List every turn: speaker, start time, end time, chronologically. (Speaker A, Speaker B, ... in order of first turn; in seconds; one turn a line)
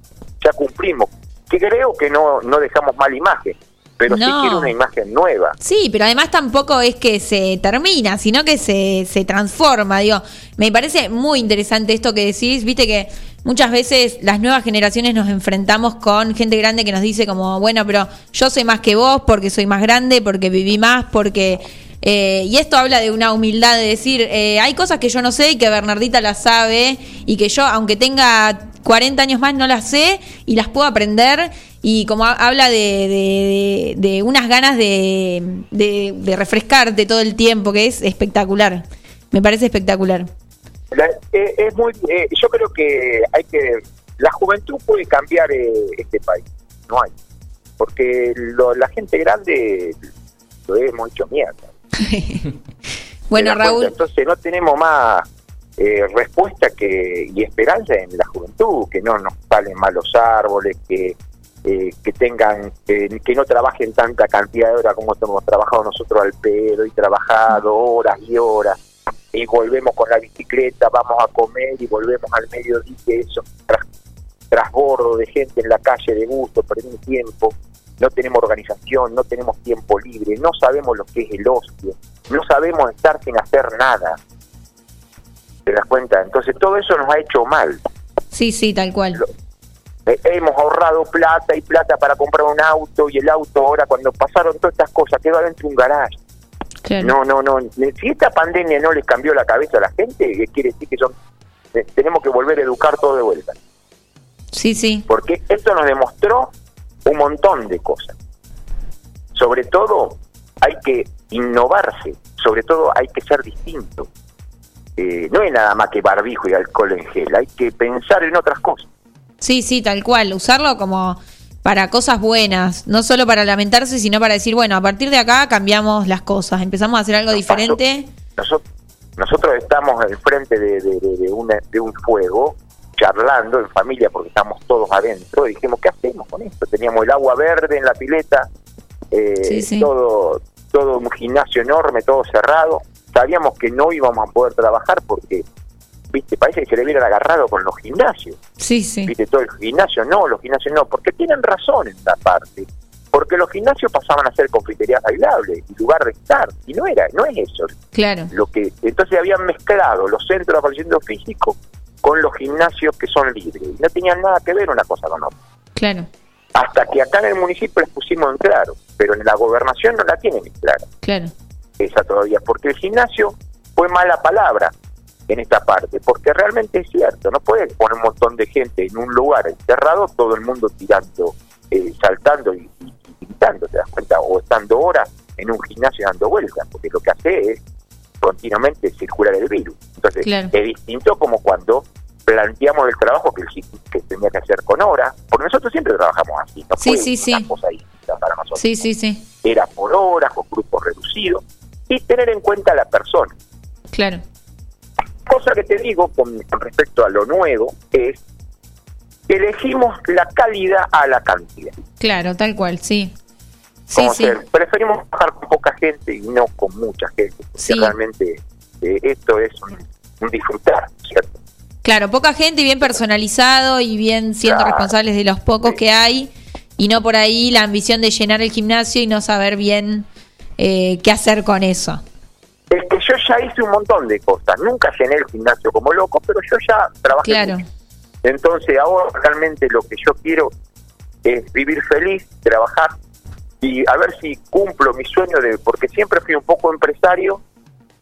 Speaker A: 0.4-5.6
Speaker B: 4.1-4.7
Speaker B: 5.6-40.3
Speaker A: 40.9-47.1
Speaker A: 47.8-50.0
Speaker A: 50.7-51.7
Speaker B: 52.0-52.5
Speaker B: 53.3-53.9
Speaker A: 53.4-55.2
Speaker A: 55.8-68.8
Speaker A: 69.3-73.8
Speaker A: 74.5-84.2
Speaker A: 85.7-87.8
Speaker B: 88.3-89.2
Speaker A: 90.1-96.2
Speaker B: 96.8-97.1
Speaker A: 97.0-101.1
Speaker A: 101.7-103.5
Speaker B: 104.5-105.1
Speaker A: 105.1-106.5
Speaker A: 107.1-108.1
Speaker A: 109.3-114.1
Speaker A: 115.0-118.9
Speaker B: 119.4-128.1
Speaker A: 127.3-127.8
Speaker A: 128.4-128.6
Speaker A: 129.2-138.5
Speaker A: 139.1-145.4
Speaker B: 139.4-139.9
Speaker A: 146.1-148.4
Speaker B: 148.6-149.1
Speaker A: 149.1-157.8
Speaker B: 157.9-158.3
Speaker A: 158.3-165.3
Speaker B: 165.8-166.1
Speaker A: 166.6-170.8
Speaker B: 171.0-171.3
Speaker A: 171.8-174.7
Speaker A: 175.3-187.6
Speaker A: 188.2-198.7
Speaker B: 190.2-190.5
Speaker B: 196.8-197.5
Speaker B: 198.6-199.2
Speaker A: 199.4-203.3
Speaker B: 203.9-204.2
Speaker A: 205.3-208.2
Speaker A: 209.3-211.7
Speaker B: 212.0-213.1
Speaker B: 213.9-214.4
Speaker A: 213.9-221.4
Speaker B: 217.6-217.9
Speaker B: 221.8-230.1
Speaker A: 224.4-224.9
Speaker B: 230.6-232.0
Speaker A: 232.7-237.6
Speaker B: 237.2-237.7
Speaker A: 238.2-240.5
Speaker A: 241.2-242.9
Speaker A: 243.6-247.4